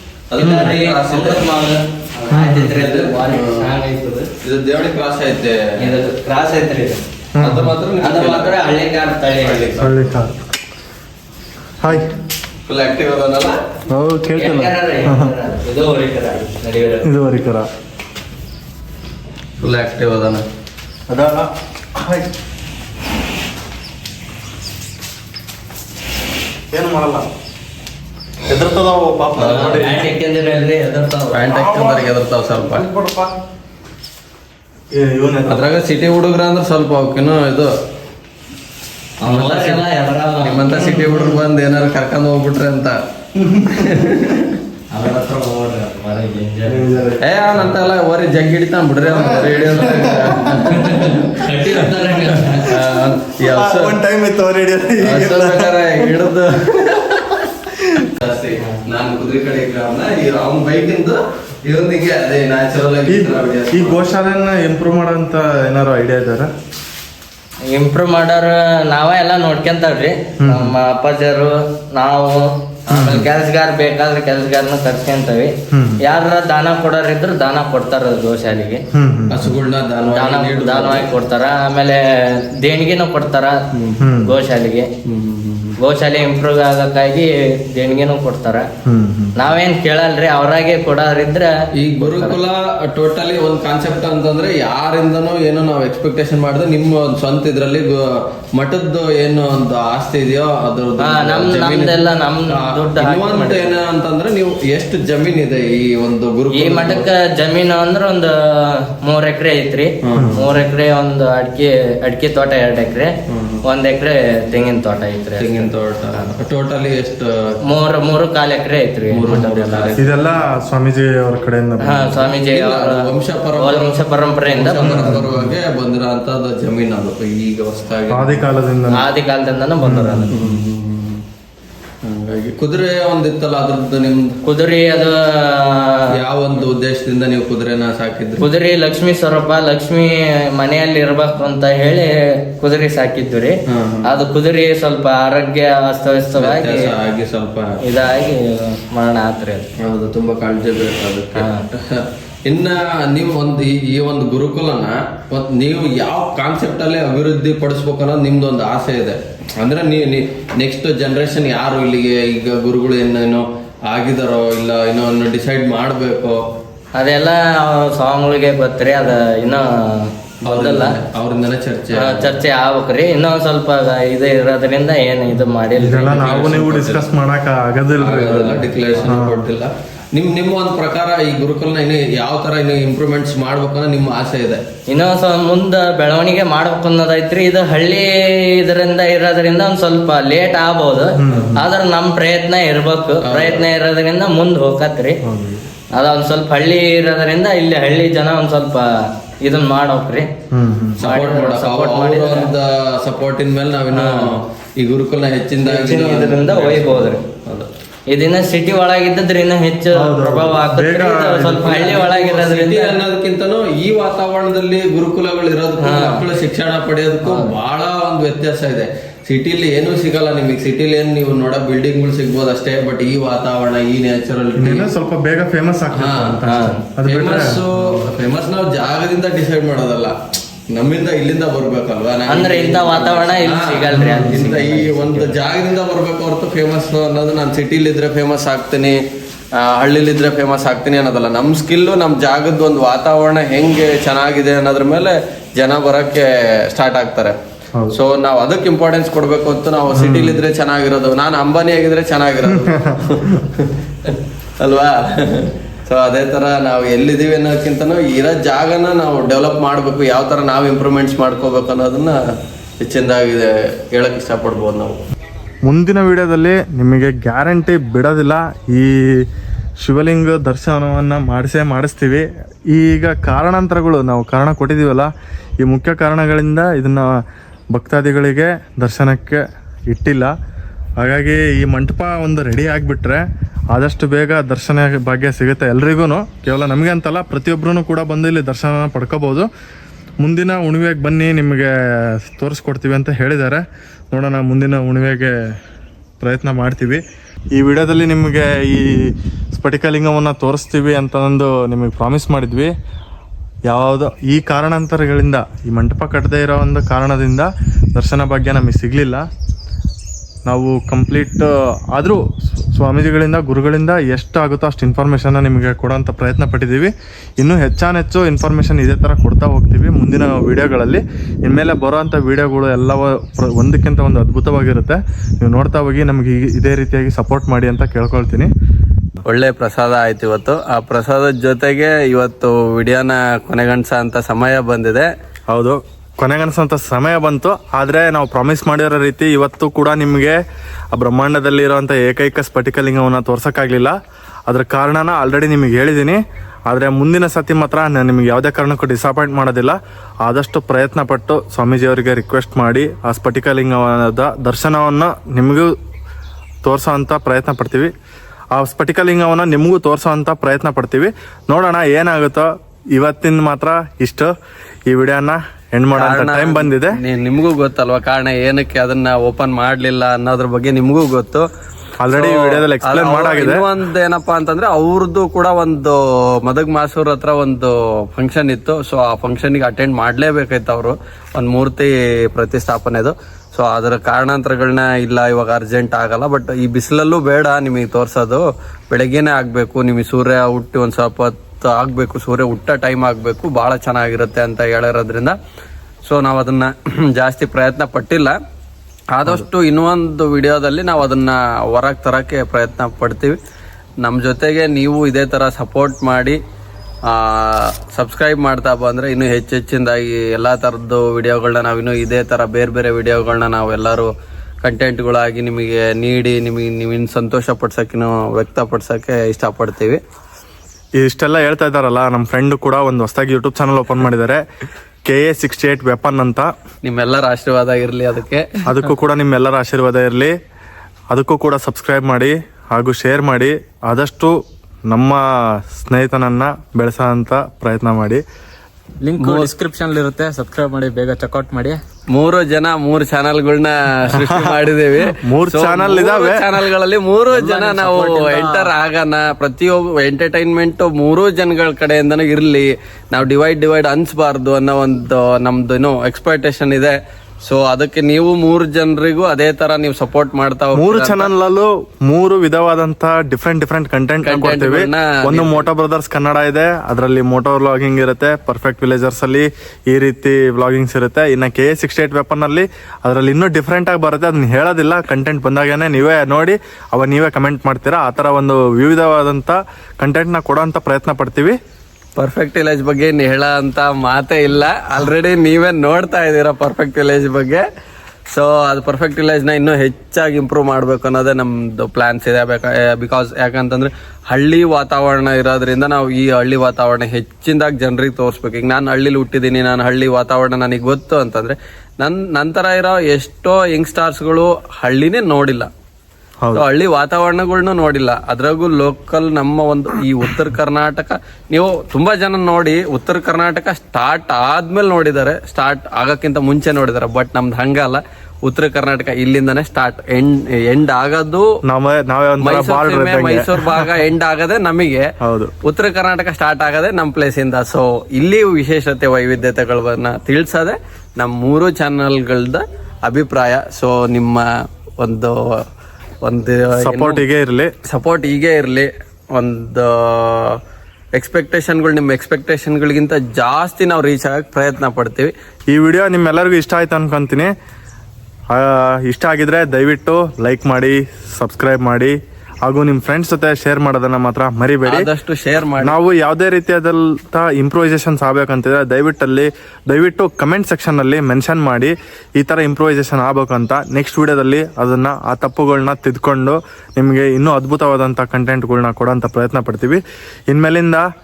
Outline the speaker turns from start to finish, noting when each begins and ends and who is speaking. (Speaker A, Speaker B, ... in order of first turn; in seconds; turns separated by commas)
Speaker A: 0.3-1.5, Speaker B: 0.4-4.3, Speaker C: 0.4-0.7, Speaker C: 2.3-2.8, Speaker A: 2.8-3.7, Speaker A: 4.4-5.6, Speaker B: 5.8-7.0, Speaker C: 7.3-7.7, Speaker A: 7.4-8.6, Speaker B: 8.0-9.7, Speaker A: 9.4-10.1, Speaker C: 9.8-10.4, Speaker C: 11.8-12.1, Speaker A: 12.7-13.6, Speaker C: 13.9-15.3, Speaker B: 14.4-17.1, Speaker C: 17.0-17.7, Speaker A: 19.6-20.4, Speaker C: 21.1-22.3, Speaker C: 26.7-27.3, Speaker C: 28.5-29.9, Speaker A: 29.4-29.9, Speaker B: 29.4-31.4, Speaker A: 31.3-32.8, Speaker C: 31.5-32.0, Speaker C: 32.6-33.3, Speaker C: 34.9-35.6, Speaker A: 35.5-37.7, Speaker B: 39.2-40.6, Speaker A: 39.2-39.8, Speaker A: 40.4-43.0, Speaker C: 40.7-41.4, Speaker C: 43.3-44.1, Speaker A: 43.8-44.5, Speaker B: 44.9-47.1, Speaker C: 46.7-47.7, Speaker A: 47.2-54.0, Speaker C: 49.1-50.5, Speaker B: 50.4-52.4, Speaker C: 53.5-56.1, Speaker A: 55.0-57.4, Speaker A: 58.1-64.0, Speaker C: 63.1-66.5, Speaker B: 67.7-75.5, Speaker C: 70.4-70.7, Speaker C: 72.9-73.3, Speaker C: 75.7-76.0, Speaker B: 76.0-78.8, Speaker C: 78.9-79.5, Speaker A: 79.3-81.1, Speaker B: 80.1-82.0, Speaker B: 82.6-83.6, Speaker C: 84.0-84.3, Speaker B: 84.2-84.8, Speaker A: 85.1-85.8, Speaker B: 85.8-88.7, Speaker C: 88.8-89.3, Speaker B: 89.4-91.5, Speaker A: 91.8-98.0, Speaker B: 92.0-92.3, Speaker A: 98.6-107.1, Speaker B: 101.0-103.7, Speaker B: 106.5-113.1, Speaker A: 110.0-110.4, Speaker C: 110.2-110.4, Speaker A: 113.3-113.6, Speaker B: 113.7-115.7, Speaker A: 115.4-117.3, Speaker B: 117.7-120.0, Speaker A: 119.1-120.0, Speaker C: 120.0-122.3, Speaker B: 121.8-123.0, Speaker A: 122.4-128.5, Speaker B: 123.6-125.2, Speaker C: 124.8-125.6, Speaker C: 128.1-129.1, Speaker B: 128.9-130.3, Speaker C: 129.8-130.4, Speaker A: 130.3-131.2, Speaker A: 132.0-134.4, Speaker B: 134.4-136.0, Speaker A: 136.1-138.4, Speaker B: 138.4-146.9, Speaker A: 143.7-144.1, Speaker A: 146.4-147.8, Speaker B: 147.8-149.7, Speaker A: 149.8-166.4, Speaker B: 151.3-151.6, Speaker B: 166.9-170.9, Speaker A: 170.4-172.4, Speaker B: 171.9-176.3, Speaker C: 175.8-179.5, Speaker A: 176.1-177.1, Speaker A: 178.0-184.6, Speaker B: 184.9-195.2, Speaker C: 191.2-191.7, Speaker A: 193.3-193.7, Speaker C: 195.2-195.7, Speaker B: 195.9-198.8, Speaker B: 199.4-200.3, Speaker C: 200.5-201.0, Speaker A: 201.0-207.7, Speaker B: 201.1-202.5, Speaker B: 203.9-204.3, Speaker B: 205.6-207.2, Speaker B: 208.1-212.9, Speaker C: 209.9-211.9, Speaker A: 211.8-224.9, Speaker B: 215.8-216.2, Speaker B: 217.2-217.5, Speaker C: 224.6-228.0, Speaker A: 225.9-226.4, Speaker B: 226.4-226.8, Speaker A: 227.1-230.2, Speaker A: 230.7-239.0, Speaker B: 232.3-235.3, Speaker C: 233.9-234.7, Speaker A: 239.6-247.3, Speaker A: 247.9-262.2, Speaker C: 249.9-250.4, Speaker C: 252.4-253.4, Speaker A: 262.8-265.0, Speaker C: 265.7-268.9, Speaker C: 269.8-275.1, Speaker C: 275.6-277.1, Speaker C: 277.7-280.3, Speaker C: 281.0-289.5, Speaker C: 290.2-295.3, Speaker C: 296.2-297.0, Speaker C: 297.5-302.7, Speaker C: 303.7-309.3, Speaker C: 310.4-312.2, Speaker C: 312.7-328.5, Speaker A: 329.2-335.1, Speaker C: 335.5-340.3, Speaker C: 340.9-343.9, Speaker C: 344.5-355.7, Speaker C: 356.6-357.9, Speaker C: 358.6-364.3, Speaker C: 364.9-367.0, Speaker A: 365.9-371.4, Speaker C: 372.0-373.7, Speaker A: 372.1-395.3, Speaker A: 396.1-398.4, Speaker A: 399.1-403.4, Speaker A: 404.0-406.4, Speaker A: 407.1-414.1, Speaker A: 414.6-420.0, Speaker C: 421.0-424.4, Speaker C: 425.1-426.5, Speaker A: 426.8-428.7, Speaker C: 428.7-430.3, Speaker C: 431.1-434.4, Speaker C: 434.9-438.2, Speaker D: 439.0-441.8, Speaker A: 439.2-439.5, Speaker A: 442.1-461.3, Speaker C: 444.1-446.5, Speaker D: 447.3-448.7, Speaker C: 460.8-481.6, Speaker A: 464.2-465.7, Speaker A: 482.2-487.6, Speaker A: 488.3-505.7, Speaker A: 506.6-521.4, Speaker C: 521.6-523.9, Speaker A: 522.4-525.0, Speaker C: 525.2-525.5, Speaker A: 525.6-534.4, Speaker A: 535.0-535.4, Speaker A: 536.2-537.2, Speaker C: 536.8-537.7, Speaker A: 537.9-540.6, Speaker A: 541.2-545.3, Speaker C: 545.7-547.5, Speaker C: 548.5-555.1, Speaker A: 554.9-556.0, Speaker C: 555.8-571.0